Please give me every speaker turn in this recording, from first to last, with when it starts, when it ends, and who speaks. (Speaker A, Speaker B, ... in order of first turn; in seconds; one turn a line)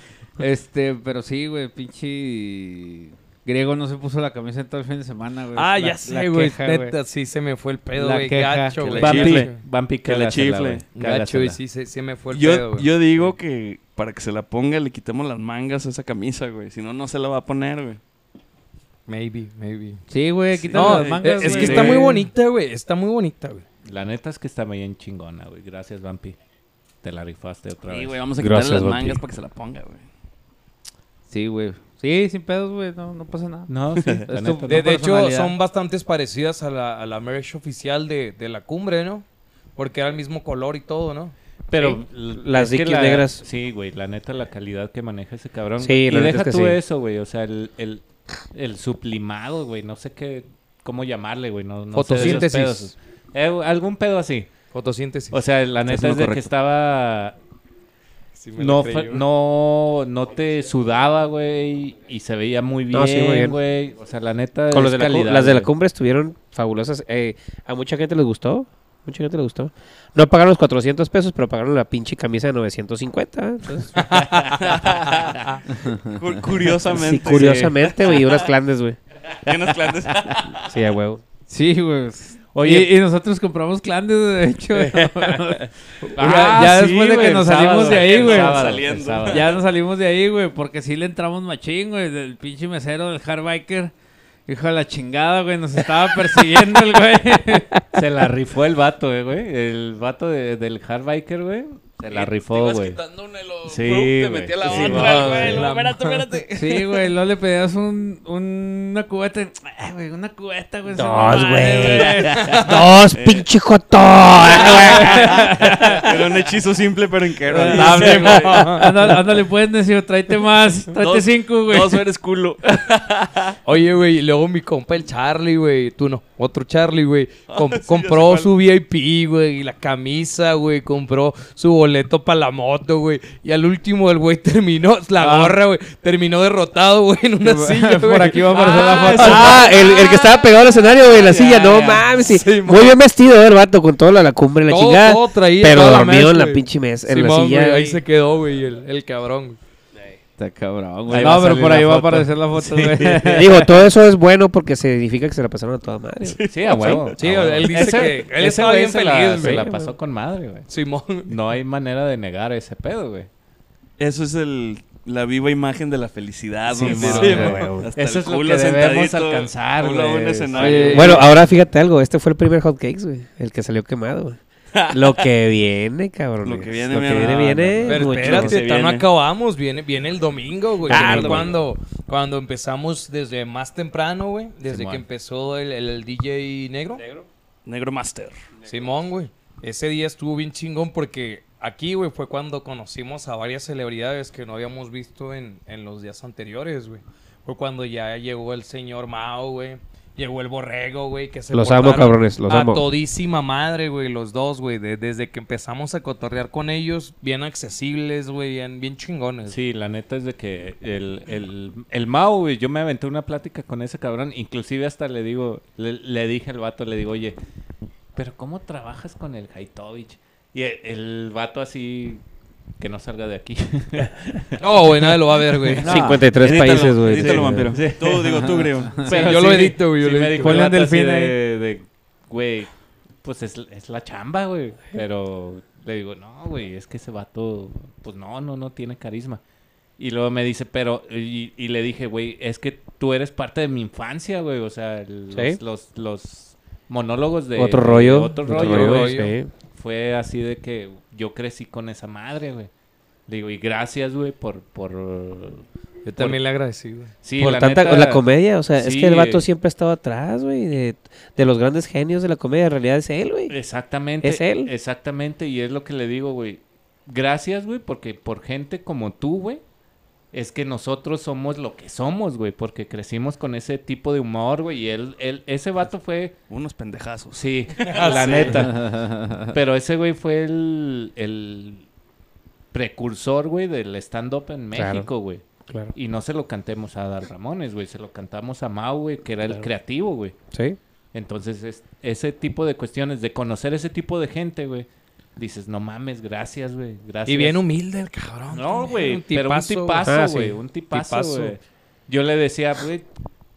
Speaker A: 0.4-6.9
Speaker B: 5.5-9.6
Speaker A: 8.0-9.2
Speaker C: 8.9-9.5
Speaker D: 9.0-11.6
Speaker C: 10.0-10.8
Speaker B: 10.9-12.9
Speaker C: 12.3-18.0
Speaker B: 19.1-20.0
Speaker A: 20.1-22.0
Speaker B: 20.7-23.6
Speaker C: 20.7-21.8
Speaker D: 21.4-22.1
Speaker D: 23.9-26.4
Speaker D: 27.0-28.2
Speaker C: 27.9-30.0
Speaker E: 28.4-29.2
Speaker A: 31.3-33.7
Speaker D: 33.7-34.9
Speaker C: 34.0-34.2
Speaker A: 34.3-35.5
Speaker B: 34.7-39.2
Speaker B: 39.8-41.3
Speaker D: 41.7-54.5
Speaker E: 41.8-43.4
Speaker E: 45.8-46.8
Speaker B: 51.9-52.9
Speaker B: 54.7-55.4
Speaker D: 55.3-57.4
Speaker C: 55.9-56.5
Speaker B: 58.4-59.2
Speaker D: 58.5-65.7
Speaker E: 62.9-63.6
Speaker E: 64.7-74.3
Speaker B: 74.0-74.8
Speaker C: 74.5-75.4
Speaker C: 76.0-78.4
Speaker E: 76.9-79.0
Speaker D: 77.3-77.7
Speaker C: 79.3-80.7
Speaker E: 80.6-81.2
Speaker A: 81.5-93.9
Speaker D: 82.5-82.9
Speaker E: 84.8-85.3
Speaker B: 86.2-87.0
Speaker D: 86.2-89.5
Speaker C: 87.8-89.6
Speaker A: 94.5-97.8
Speaker D: 97.9-103.0
Speaker C: 102.0-107.1
Speaker D: 103.7-105.6
Speaker E: 104.6-105.6
Speaker B: 105.0-106.3
Speaker A: 106.5-112.6
Speaker E: 110.9-116.0
Speaker C: 113.1-113.5
Speaker C: 114.5-118.8
Speaker A: 114.8-116.0
Speaker A: 117.6-122.0
Speaker B: 117.7-119.0
Speaker C: 120.9-123.5
Speaker B: 123.6-139.6
Speaker C: 127.5-128.5
Speaker A: 135.2-135.5
Speaker A: 137.4-139.6
Speaker D: 138.7-140.2
Speaker E: 139.1-148.0
Speaker D: 141.2-142.1
Speaker B: 142.1-143.0
Speaker B: 144.7-149.6
Speaker A: 150.4-153.8
Speaker D: 151.1-153.1
Speaker E: 153.0-157.0
Speaker C: 156.2-158.1
Speaker D: 156.5-160.7
Speaker B: 157.2-159.7
Speaker E: 159.4-159.9
Speaker B: 160.7-161.3
Speaker D: 161.2-163.3
Speaker C: 164.0-171.2
Speaker D: 166.7-171.2
Speaker E: 166.8-167.9
Speaker B: 166.8-167.6
Speaker B: 170.5-171.2
Speaker A: 170.6-171.2
Speaker E: 170.9-178.6
Speaker C: 174.7-175.2
Speaker C: 176.4-179.1
Speaker B: 177.8-187.0
Speaker E: 180.9-181.5
Speaker D: 180.9-181.3
Speaker C: 181.0-181.4
Speaker D: 184.7-185.0
Speaker C: 187.7-188.5
Speaker B: 188.7-209.6
Speaker E: 201.5-202.8
Speaker D: 209.5-217.4
Speaker D: 218.1-222.2
Speaker D: 222.8-232.7
Speaker B: 224.6-225.9
Speaker A: 225.8-226.3
Speaker E: 225.8-227.8
Speaker C: 226.4-229.2
Speaker B: 229.0-231.3
Speaker A: 230.4-230.9
Speaker D: 233.2-239.4
Speaker D: 240.0-249.2
Speaker E: 245.3-245.6
Speaker E: 247.6-249.5
Speaker B: 248.5-249.3
Speaker D: 249.7-252.7
Speaker D: 253.3-255.6
Speaker B: 256.0-257.1
Speaker D: 257.2-258.2
Speaker E: 257.4-263.5
Speaker D: 258.8-259.4
Speaker D: 263.5-269.6
Speaker E: 264.2-264.7
Speaker D: 270.3-276.3
Speaker C: 276.5-278.6
Speaker D: 277.3-281.8
Speaker B: 277.9-278.6
Speaker A: 278.7-279.5
Speaker D: 282.7-290.4
Speaker E: 284.7-285.1
Speaker E: 285.7-285.9
Speaker E: 290.5-290.8
Speaker D: 291.1-297.6
Speaker B: 297.2-300.1
Speaker D: 298.5-303.1
Speaker E: 300.0-300.6
Speaker B: 300.9-301.5